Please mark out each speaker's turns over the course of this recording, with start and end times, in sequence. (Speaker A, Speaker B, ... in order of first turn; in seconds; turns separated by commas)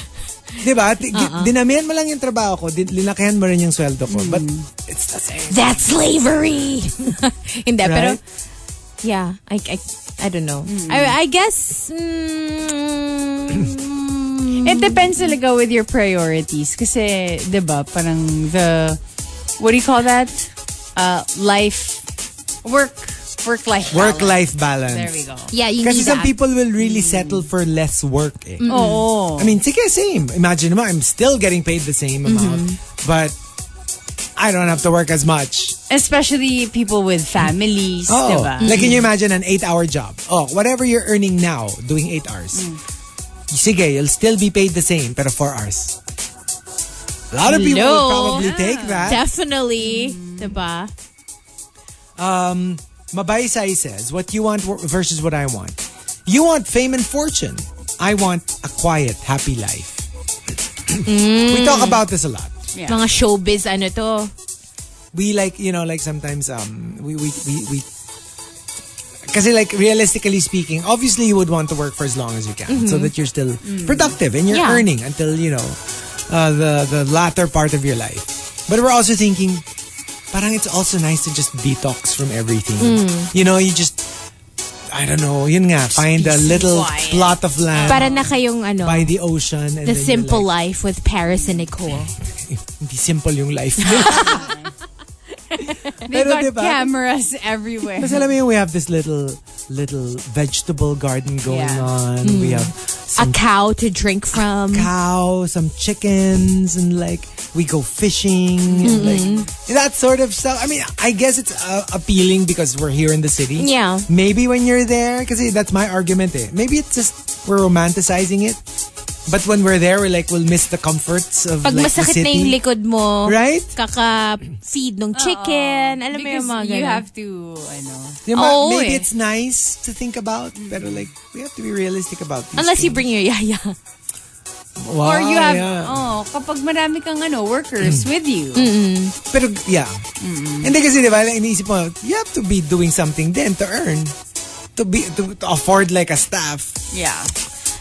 Speaker A: 0.6-5.6, Speaker B: 1.1-1.5, Speaker C: 4.1-4.7, Speaker B: 5.5-8.2, Speaker A: 7.8-8.2, Speaker B: 9.0-15.3, Speaker C: 10.7-11.2, Speaker C: 14.6-19.0, Speaker C: 19.6-22.0, Speaker C: 22.6-25.5, Speaker A: 23.9-25.2, Speaker B: 25.5-26.3, Speaker A: 25.8-28.7, Speaker C: 26.8-27.5, Speaker B: 28.6-29.1, Speaker C: 28.7-29.6, Speaker A: 29.4-33.4, Speaker B: 32.2-32.8, Speaker A: 34.4-35.8, Speaker C: 35.9-39.0, Speaker A: 38.1-42.7, Speaker B: 38.6-39.0, Speaker C: 42.5-42.8, Speaker A: 43.5-46.0, Speaker A: 47.3-49.2, Speaker B: 47.4-48.5, Speaker C: 48.2-49.2, Speaker B: 49.0-50.9, Speaker C: 49.8-50.6, Speaker A: 52.2-62.5, Speaker B: 61.0-62.0, Speaker C: 62.7-63.0, Speaker B: 62.8-64.3, Speaker A: 65.1-67.8, Speaker A: 69.3-79.6, Speaker B: 72.7-73.1, Speaker C: 73.6-74.2, Speaker B: 74.5-74.8, Speaker A: 80.3-84.0, Speaker B: 82.8-83.3, Speaker A: 84.9-88.1, Speaker B: 86.0-86.7, Speaker C: 86.4-88.4, Speaker B: 87.8-89.1, Speaker A: 88.8-90.5, Speaker B: 89.8-92.1, Speaker C: 91.3-91.7, Speaker A: 92.5-94.5, Speaker B: 93.8-94.4, Speaker C: 93.8-94.7, Speaker B: 95.5-95.9, Speaker A: 95.9-96.9, Speaker C: 96.0-98.3, Speaker A: 98.0-103.4, Speaker C: 101.4-101.9, Speaker B: 102.2-104.9, Speaker A: 104.7-118.6, Speaker C: 108.7-109.5, Speaker B: 108.8-109.5, Speaker B: 113.6-114.1, Speaker A: 119.3-122.6, Speaker B: 121.6-127.0, Speaker A: 123.2-123.8, Speaker C: 125.1-128.2, Speaker A: 128.2-133.0, Speaker B: 128.3-129.1, Speaker C: 130.5-131.1, Speaker B: 132.6-133.8, Speaker A: 134.8-136.0, Speaker C: 135.0-138.7, Speaker B: 138.5-139.2, Speaker A: 139.3-140.0, Speaker C: 140.2-140.7, Speaker A: 140.6-144.1, Speaker A: 144.8-146.8, Speaker C: 146.9-147.3